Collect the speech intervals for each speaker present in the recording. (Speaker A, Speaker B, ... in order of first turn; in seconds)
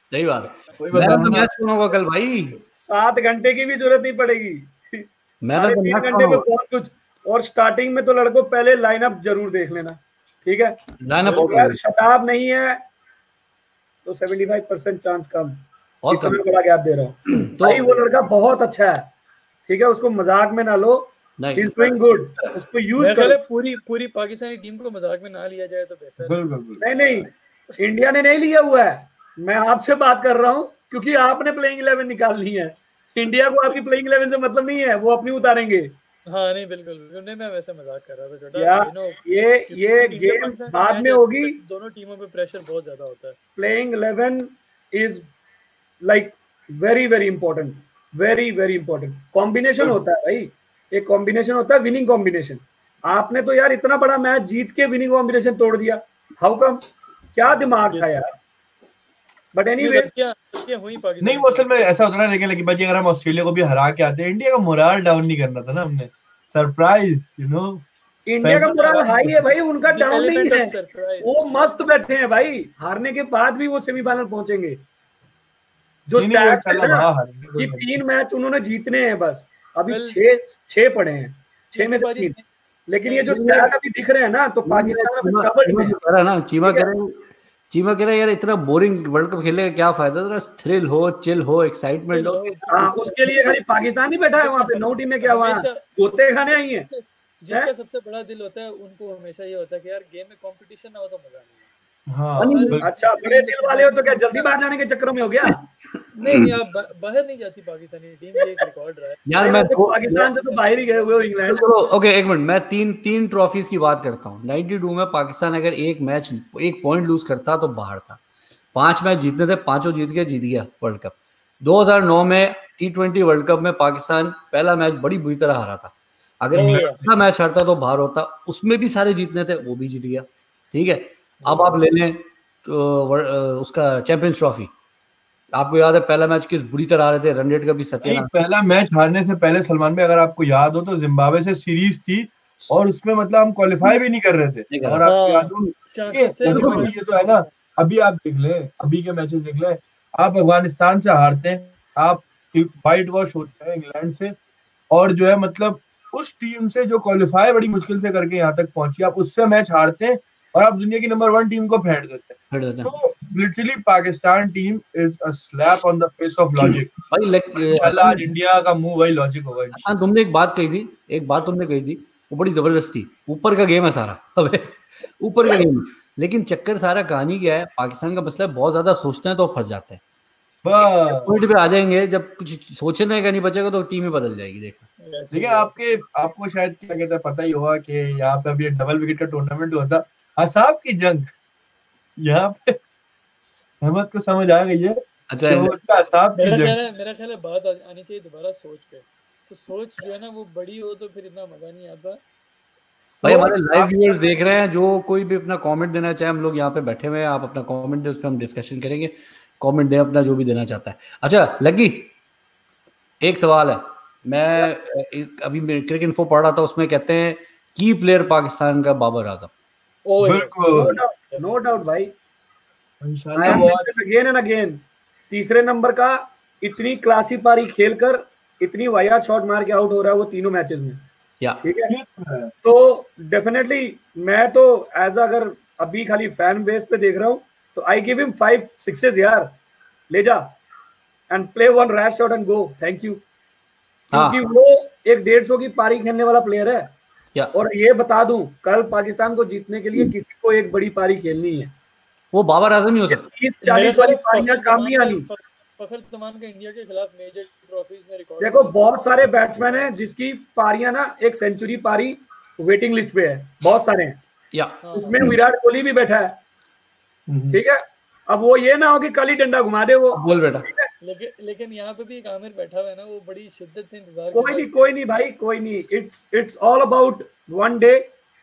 Speaker A: 0.1-2.6, 5.4-6.5, 11.0-11.8, 16.0-16.4, 17.3-18.0, 21.4-22.5, 83.2-83.7, 84.6-92.7, 102.4-102.8, 105.4-106.5, 109.3-110.3, 111.5-118.2, 118.7-134.7, 135.5-138.3, 144.7-145.0, 146.4-146.9, 162.5-162.9, 166.6-168.3, 169.7-180.0, 180.8-184.9, 195.3-195.7, 203.2-212.1, 213.2-219.5, 223.4-223.7, 244.1-244.4, 252.3-253.2, 264.5-265.3, 270.1-270.7
Speaker B: 0.8-1.5, 26.2-26.8, 61.2-67.8, 68.4-69.5, 76.2-77.9, 102.1-102.8, 126.5-127.2, 138.0-154.3, 154.9-166.9, 167.6-169.9, 180.6-181.3, 185.3-191.3, 192.2-192.8, 193.8-196.8, 203.2-204.2, 220.2-221.0, 223.0-223.9, 231.9-232.5, 267.3-267.6
Speaker C: 2.8-10.8, 11.4-12.8, 14.1-19.0, 19.6-23.4, 26.8-35.9, 38.5-41.5, 43.6-45.3, 46.0-56.8, 57.3-58.3, 59.5-60.1, 68.3-74.8, 76.1-82.3, 82.9-86.0, 86.6-86.9, 92.7-96.9, 102.8-105.6, 109.4-111.7, 220.7-222.1, 223.4-231.0, 231.6-231.9, 232.6-239.5, 240.1-240.5, 241.3-243.2, 244.1-246.9, 247.5-251.7, 253.1-255.2, 258.4-264.2, 264.9-266.3, 267.5-270.9, 274.3-278.0
Speaker D: 11.2-11.7, 23.0-26.4, 36.3-43.4, 57.5-58.2, 59.8-61.9, 69.8-71.8, 79.9-80.2, 81.7-82.5, 92.1-95.8, 96.5-101.7, 102.4-104.5, 106.2-109.2, 110.4-111.4, 126.5-127.0, 131.4-131.8, 145.0-147.4, 185.0-185.8, 196.4-202.2, 220.1-221.6, 253.6-259.9, 264.8-265.3, 271.0-274.8